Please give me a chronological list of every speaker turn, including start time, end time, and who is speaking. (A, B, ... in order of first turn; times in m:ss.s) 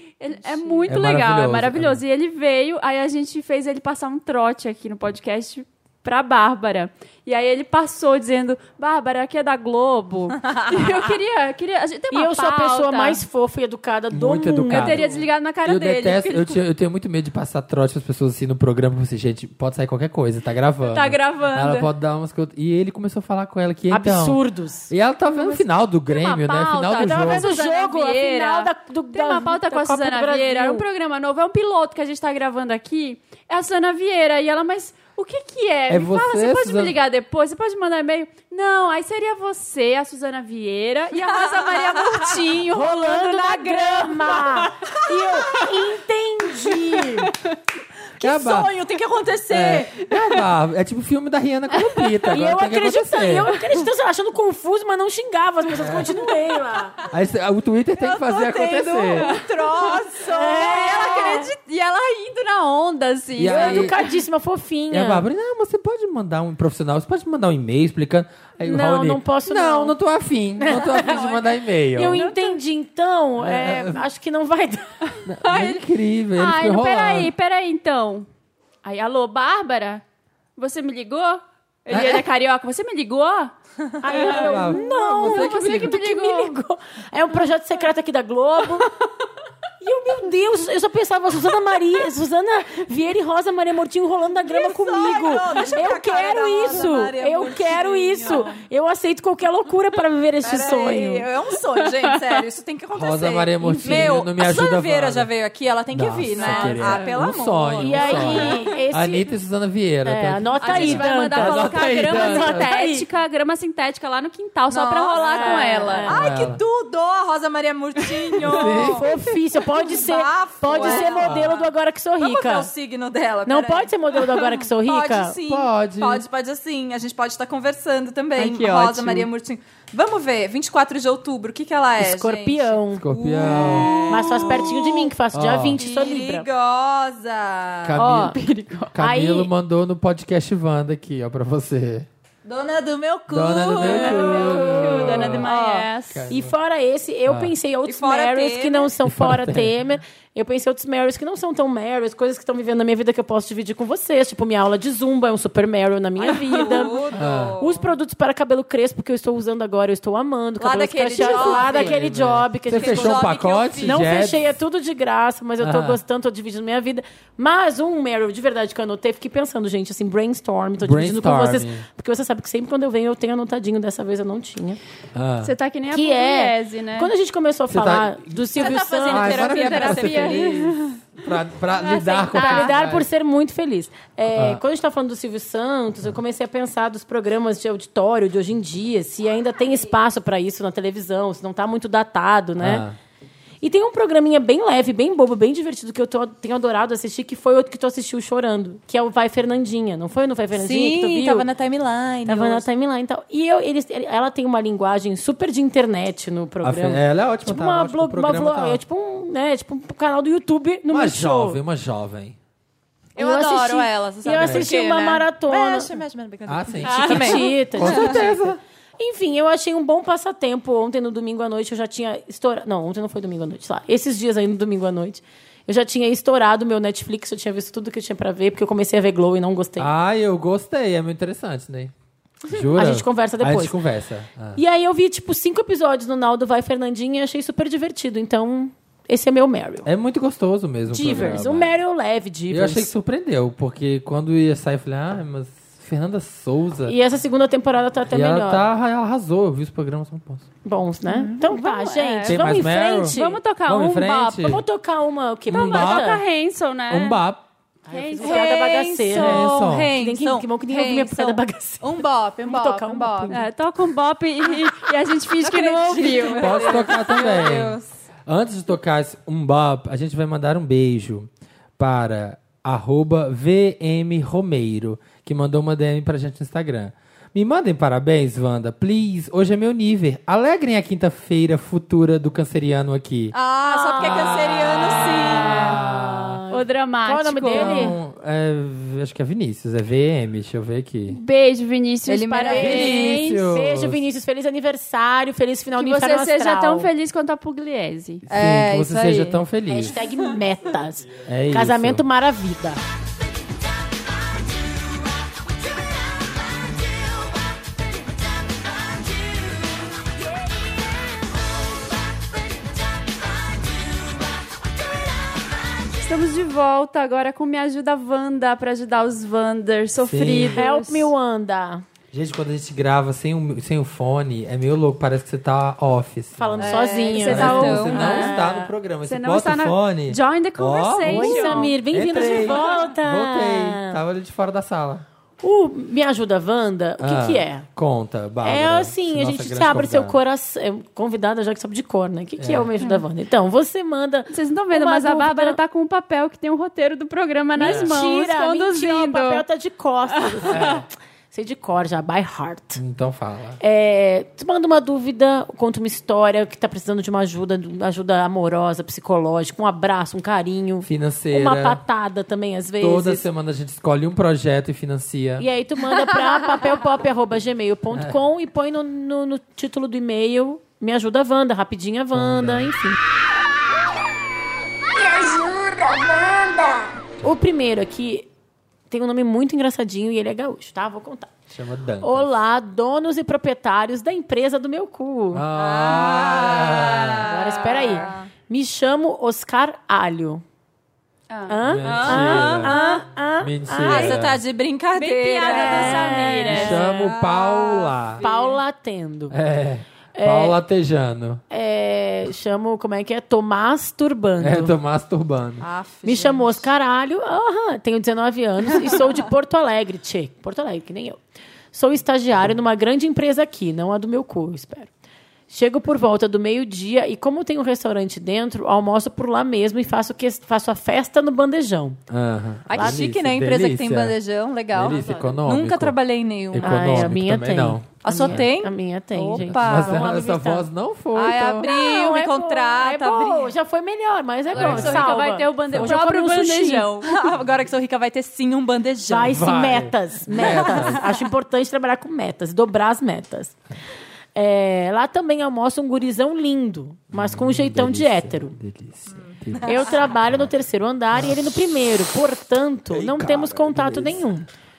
0:00.2-0:13.2 A
0:00.6-0:00.9 B
0:00.9-0:02.0 C
0:10.4-0:11.0 B
0:12.1-0:15.1 D
0:14.1-0:24.4 C
0:14.7-0:16.6 A
0:20.9-0:21.9 A
0:23.9-0:24.9 D
0:24.9-0:27.5 C
0:25.4-0:44.7 A
0:27.0-0:30.8 D
0:35.9-0:37.0 C
0:41.2-0:42.4 B
0:42.7-0:47.3 D
0:48.2-0:50.0 B
0:48.2-0:48.8 C
0:49.5-0:53.6 C
0:52.3-0:57.0 D
0:55.8-0:56.1 C
0:57.1-0:59.4 C
0:58.1-1:00.7 B
0:58.4-1:03.9 A
1:00.3-1:01.5 D
1:03.4-1:04.0 C
1:03.5-1:05.3 D
1:04.9-1:12.2 C
1:08.6-1:10.0 D
1:10.6-1:11.4 D
1:11.9-1:15.0 D
1:12.1-1:12.6 A
1:13.4-1:14.0 C
1:15.3-1:17.3 C
1:15.4-1:15.8 A
1:16.4-1:18.3 A
1:18.8-1:20.0 A
1:20.6-1:23.5 A
1:21.9-1:22.3 C
1:24.0-1:28.9 D
1:24.1-1:26.5 A
1:24.2-1:26.0 C
1:29.8-1:41.3 D
1:34.5-1:38.6 B
1:40.4-1:48.7 B
1:42.9-1:45.3 C
1:43.9-1:44.1 D
1:45.9-1:52.7 C
1:46.4-1:47.1 A
1:47.8-1:49.3 D
1:50.0-1:53.1 D
1:50.6-1:56.1 A
1:54.7-1:59.1 B
1:55.2-1:56.3 D
1:56.1-1:56.6 C
1:58.4-1:59.2 C
1:58.7-2:02.7 D
1:59.8-2:01.7 B
2:00.9-2:01.6 C
2:02.2-2:15.1 B
2:03.5-2:05.4 D
2:05.5-2:06.2 C
2:08.4-2:09.3 A
2:12.0-2:16.5 D
2:13.0-2:14.0 C
2:15.3-2:15.8 C
2:15.8-2:18.0 B
2:17.8-2:18.4 C
2:18.0-2:18.4 D
2:18.1-2:18.9 A
2:18.9-2:22.1 C
2:19.0-2:19.5 D
2:22.4-2:25.9 B
2:23.3-2:25.5 C
2:23.8-2:26.3 A
2:26.1-2:26.6 C
2:26.3-2:54.8 D
2:27.3-2:27.5 C
2:27.8-2:28.9 B
2:29.0-2:29.8 C
2:36.2-2:37.9 B
2:36.5-2:36.8 A
2:37.1-2:37.6 C
2:40.6-2:42.0 B
2:41.2-2:44.5 C
2:42.7-2:44.0 B
2:45.6-2:46.0 C
2:50.8-2:51.8 C
2:55.2-2:55.5 C
2:55.4-2:57.1 A
2:55.9-3:00.0 D
2:57.7-3:03.1 C
2:58.6-3:00.5 B
2:59.8-3:01.0 A
3:01.8-3:02.7 A
3:02.3-3:12.9 D
3:04.4-3:04.6 C
3:12.6-3:13.0 C
3:13.6-3:21.5 D
3:20.5-3:22.6 B
3:22.3-3:31.6 D
3:26.6-3:28.8 C
3:30.9-3:32.4 C
3:33.2-3:38.2 B
3:33.2-3:35.9 D
3:34.4-3:34.7 C
3:36.5-3:38.6 C
3:36.8-3:38.5 D
3:36.9-3:37.3 A
3:39.0-3:49.9 D
3:49.8-3:51.9 C
3:52.5-3:54.6 C
3:52.5-3:53.8 D
3:54.6-3:59.9 D
3:59.8-4:01.7 C
4:00.9-4:02.9 D
4:02.5-4:07.0 C
4:06.9-4:08.6 D
4:08.1-4:10.5 C
4:10.6-4:13.4 D
4:11.1-4:14.4 A
4:12.3-4:14.6 C
4:14.3-4:16.2 D
4:15.5-4:16.2 C
4:15.5-4:17.2 A
4:16.9-4:17.4 C
4:17.9-4:18.6 A
4:17.9-4:23.5 D
4:18.2-4:23.4 B
4:19.1-4:20.0 C
4:23.3-4:27.0 A
4:25.4-4:27.9 B
4:26.1-4:43.4 C
4:43.3-4:45.7 B
4:43.6-4:48.0 D
4:44.0-4:46.4 C
4:46.5-4:48.0 A
4:47.5-4:51.2 C
4:51.1-4:53.4 A
4:52.1-4:53.2 B
4:52.5-4:54.0 C
4:52.8-4:56.9 D
4:55.8-4:58.2 A
4:58.3-5:00.0 C
4:58.3-4:59.4 B
4:59.7-5:02.8 D
5:01.2-5:02.0 C
5:16.0-5:21.1 A
5:20.0-5:20.6 C
5:20.4-5:21.8 D
5:22.1-5:35.0 C
5:26.4-5:28.5 D
5:26.6-5:28.3 B
5:27.1-5:28.4 A
5:29.0-5:31.7 A
5:31.0-5:34.0 D
5:35.4-5:37.7 D
5:37.0-5:40.2 C
5:38.4-5:45.6 D
5:42.4-5:42.7 C
5:44.3-5:49.4 A
5:47.6-5:52.8 D
5:47.6-5:48.0 C
5:50.1-5:50.7 A
5:50.5-5:50.8 C
5:52.8-5:53.6 C
5:53.6-6:03.3 D
6:00.8-6:01.8 C
6:02.8-6:05.5 C
6:05.4-6:13.0 D
6:12.2-6:12.7 C
6:14.9-6:17.0 E
6:17.2-6:18.3 D
6:18.9-6:21.4 D
6:21.5-6:22.3 C
6:22.0-6:25.5 D
6:25.3-6:27.3 C
6:25.5-6:28.3 B
6:27.3-6:30.4 D
6:31.3-6:33.0 A
6:31.5-6:34.3 D
6:31.6-6:32.8 C
6:32.7-6:33.0 B
6:33.4-6:34.4 C
6:33.8-6:38.6 B
6:35.0-6:36.8 A
6:35.5-6:36.9 D
6:36.5-6:38.2 C
6:38.2-6:39.4 D
6:39.3-6:41.4 C
6:40.2-6:40.6 D
6:41.5-6:44.8 D
6:44.4-6:45.6 C
6:45.6-6:46.7 B
6:46.0-6:51.2 D
6:51.7-6:54.9 D
6:55.5-7:02.0 D
7:02.1-7:04.2 C
7:02.7-7:07.1 B
7:02.7-7:03.0 D
7:04.7-7:06.0 C
7:04.8-7:05.1 D
7:06.5-7:08.5 C
7:06.6-7:10.7 D
7:08.0-7:10.1 B
7:09.4-7:11.7 C
7:11.2-7:13.5 B
7:11.6-7:16.9 D
7:14.5-7:15.2 B
7:14.6-7:15.0 C
7:14.6-7:17.2 A
7:15.7-7:16.0 C
7:17.0-7:19.5 B
7:19.1-7:23.6 D
7:19.3-7:21.1 C
7:20.3-7:21.0 B
7:24.4-7:28.6 D
7:27.1-7:30.5 C
7:29.1-7:29.9 B
7:29.6-7:34.5 D
7:31.1-7:31.4 C
7:32.9-7:34.2 C